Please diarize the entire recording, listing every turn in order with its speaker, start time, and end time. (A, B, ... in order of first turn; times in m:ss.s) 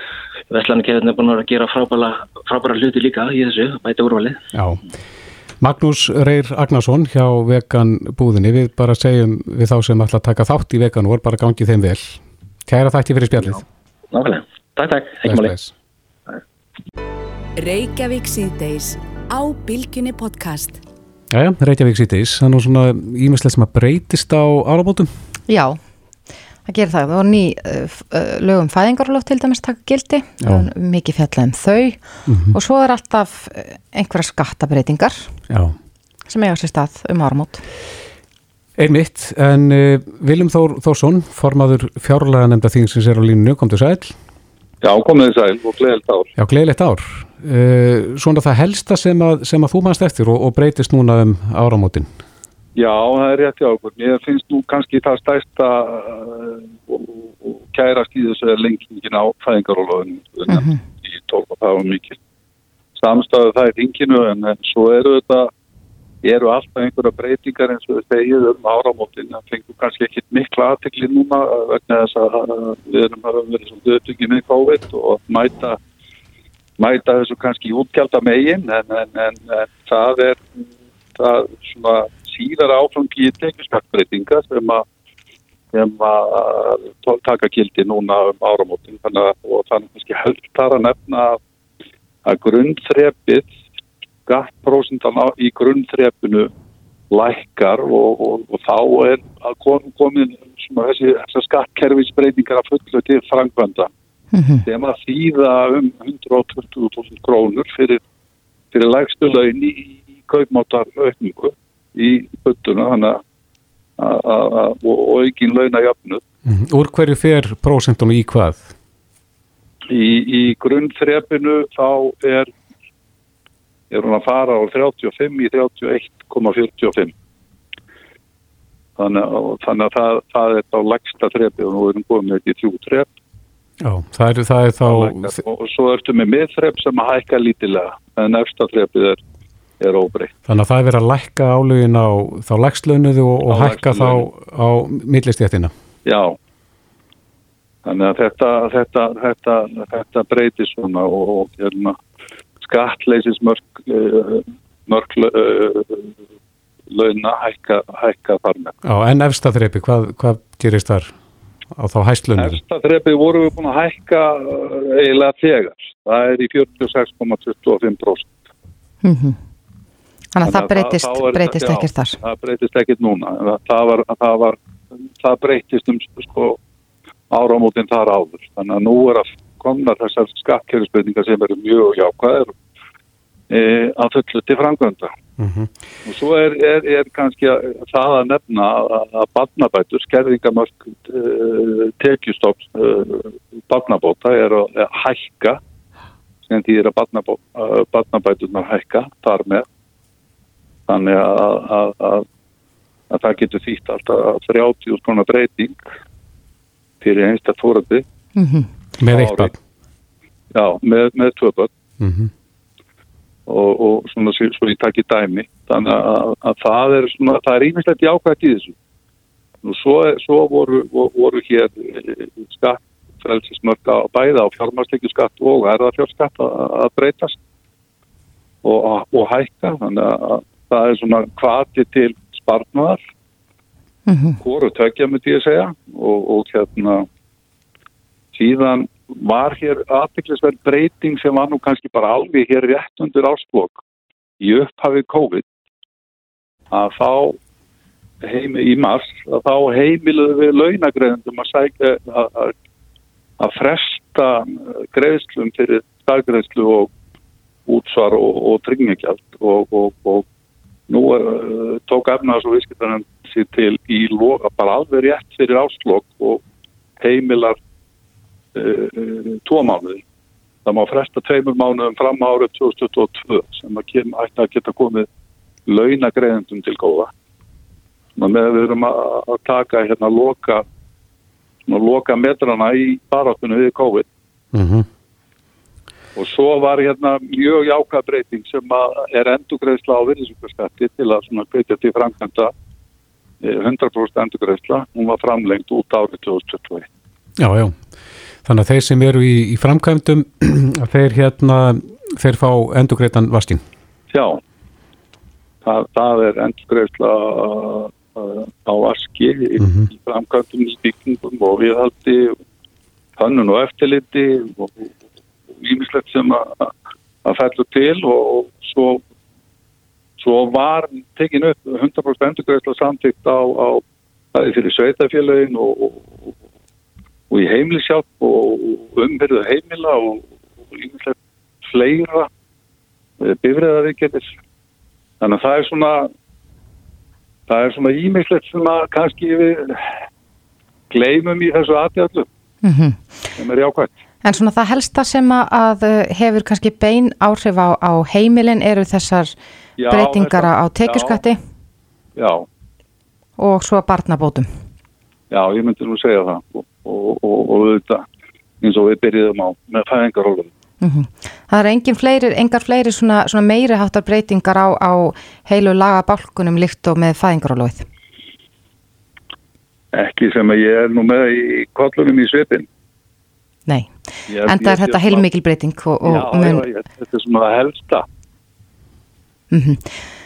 0:00.5-0:04.4 A
0:04.5-0:04.8 B
0:05.6-0:13.6 B
0:14.1-0:15.6 A
0:15.2-0:15.7 B
0:17.6-0:20.8 C
0:21.3-0:25.1 B
0:25.5-0:25.8 D
0:26.6-0:35.3 D
0:32.3-0:32.5 B
0:35.5-0:35.7 B
0:36.3-0:37.6 D
0:38.8-0:44.1 B
0:44.8-0:46.3 E
0:46.4-0:52.1 B
0:52.8-1:02.2 E
1:00.5-1:00.8 D
1:03.0-1:05.5 E
1:06.2-1:15.8 E
1:16.8-1:20.4 E
1:21.1-1:24.8 E
1:25.7-1:31.4 E
1:32.2-1:33.5 E
1:34.2-1:36.5 E
1:37.1-1:43.9 E
1:44.3-1:44.6 D
1:44.6-1:48.0 E
1:48.7-1:53.2 E
1:54.0-1:56.2 E
1:56.4-1:58.7 B
1:59.9-2:02.5 E
2:03.9-2:07.1 E
2:09.0-2:13.1 E
2:13.8-2:15.4 B
2:14.8-2:19.2 E
2:19.8-2:20.3 E
2:20.5-2:25.7 B
2:23.4-2:24.3 E
2:26.0-2:26.4 E
2:27.8-2:32.0 E
2:32.6-2:36.1 E
2:36.9-2:38.7 E
2:38.8-2:41.1 B
2:41.7-2:42.6 B
2:42.4-2:48.3 E
2:49.0-2:49.4 D
2:50.3-2:52.2 D
2:50.4-2:54.6 E
2:55.2-2:56.6 E
2:57.3-3:02.5 E
3:03.5-3:05.1 E
3:05.4-3:05.7 B
3:06.0-3:15.6 E
3:16.5-3:19.6 E
3:20.9-3:22.2 E
3:23.1-3:25.8 E
3:27.0-3:28.0 E
3:28.4-3:28.7 D
3:29.0-3:29.5 B
3:29.0-3:29.5 E
3:30.5-3:31.7 E
3:32.0-3:32.3 B
3:33.5-3:38.7 E
3:39.6-3:47.4 E
3:48.6-3:53.0 E
3:54.1-3:54.4 D
3:54.4-3:57.1 E
3:58.3-4:03.8 E
4:04.4-4:05.5 E
4:06.7-4:07.4 E
4:08.2-4:12.5 E
4:13.4-4:16.9 E
4:17.7-4:20.2 E
4:20.9-4:26.4 E
4:27.0-4:27.6 E
4:28.5-4:30.0 E
4:30.6-4:35.1 E
4:35.7-4:37.1 E
4:38.2-4:40.6 E
4:41.7-4:44.1 E
4:44.5-4:44.9 B
4:46.2-4:52.5 E
4:53.4-4:56.9 E
4:57.4-4:57.8 B
4:58.4-5:03.6 B
5:04.1-5:04.4 E
5:05.6-5:12.4 E
5:09.6-5:09.9 B
5:13.2-5:14.9 E
5:15.5-5:16.7 E
5:17.2-5:19.0 E
5:20.2-5:26.3 E
5:27.3-5:32.3 E
5:33.2-5:34.3 E
5:35.2-5:36.1 E
5:37.5-5:39.9 E
5:40.9-5:42.3 E
5:42.6-5:43.3 D
5:43.4-5:43.9 E
5:44.2-5:49.4 D
5:49.8-5:51.2 E
5:49.9-5:51.4 D
5:52.2-5:52.4 E
5:53.4-5:54.5 D
5:55.3-5:58.0 E
5:58.6-6:00.5 E
6:00.8-6:07.8 D
6:09.9-6:12.7 E
6:13.7-6:16.6 D
6:14.3-6:15.3 E
6:16.0-6:18.0 E
6:19.5-6:19.9 D